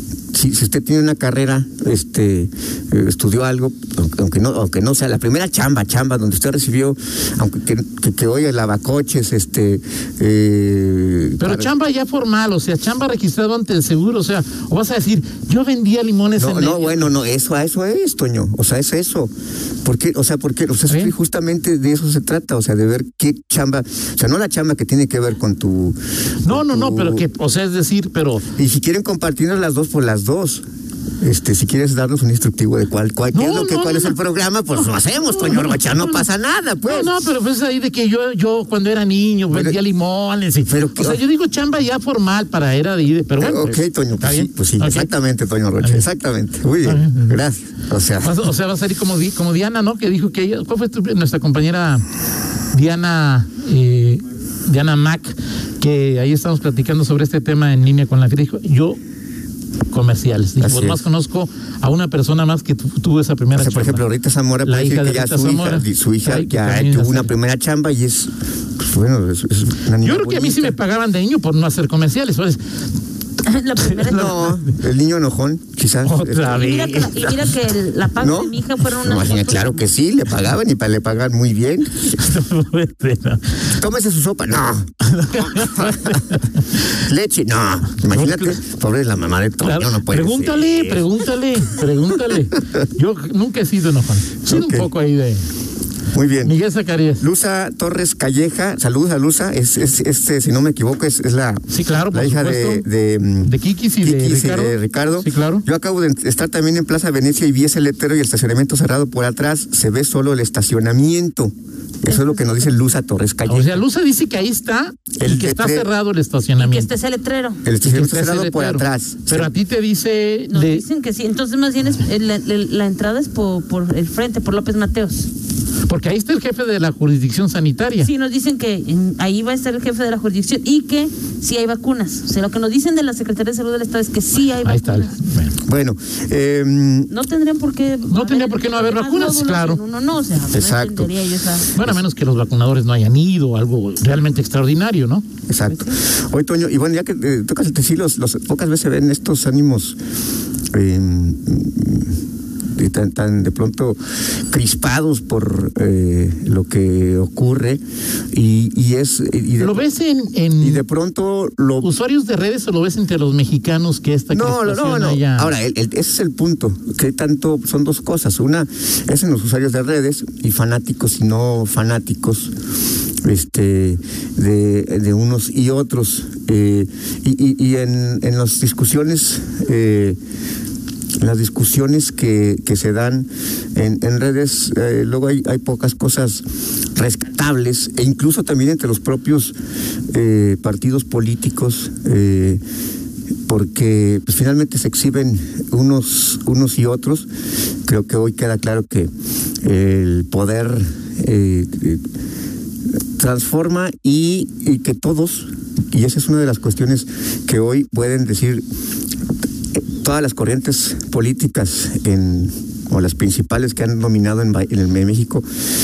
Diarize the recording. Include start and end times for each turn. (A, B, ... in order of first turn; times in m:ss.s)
0:00.3-0:11.7 A
0:11.4-0:17.1 B
0:16.4-0:19.3 A
0:19.8-0:27.2 A
0:20.9-0:21.1 B
0:26.4-0:28.5 B
0:28.6-0:30.6 A
0:31.2-0:37.2 A
0:33.3-0:34.2 B
0:34.7-0:36.2 B
0:36.8-0:45.1 B
0:39.5-0:39.8 A
0:40.7-0:41.2 A
0:43.4-0:48.4 A
0:45.8-0:46.1 B
0:46.8-0:47.4 B
0:48.2-0:52.0 B
0:52.7-0:59.0 B
0:59.9-1:04.0 B
1:00.6-1:01.0 A
1:03.5-1:10.8 A
1:04.6-1:07.3 B
1:10.0-1:12.6 B
1:13.4-1:14.3 C
1:13.8-1:14.5 B
1:14.0-1:16.6 A
1:16.0-1:17.5 B
1:16.5-1:19.8 C
1:18.2-1:22.1 A
1:22.0-1:23.7 B
1:23.7-1:26.2 A
1:25.0-1:26.8 B
1:27.0-1:31.1 A
1:28.0-1:28.6 B
1:29.6-1:35.5 B
1:34.4-1:34.9 A
1:36.1-1:36.6 A
1:36.4-1:37.2 B
1:37.2-1:53.8 A
1:41.7-1:42.8 B
1:43.4-1:45.6 B
1:52.1-1:52.5 C
1:53.4-1:56.9 B
1:55.2-1:55.9 A
1:56.6-1:57.6 C
1:57.6-1:59.5 A
1:57.8-2:00.8 B
2:00.5-2:05.3 C
2:05.9-2:08.1 B
2:08.0-2:15.1 C
2:14.6-2:15.6 B
2:15.6-2:17.1 A
2:17.1-2:21.7 C
2:18.1-2:19.8 B
2:20.5-2:22.0 A
2:21.7-2:25.2 B
2:25.5-2:30.0 A
2:25.7-2:26.0 C
2:30.7-2:32.1 A
2:32.7-2:34.0 A
2:34.5-2:37.8 A
2:38.3-2:39.8 A
2:39.6-2:40.8 B
2:40.6-2:41.9 A
2:41.8-2:45.5 B
2:44.3-2:52.5 A
2:53.2-3:00.2 A
3:01.2-3:06.4 A
3:06.9-3:09.5 A
3:10.1-3:12.6 A
3:13.5-3:17.3 A
3:17.8-3:19.1 A
3:19.6-3:22.0 A
3:23.2-3:28.6 A
3:29.7-3:35.4 A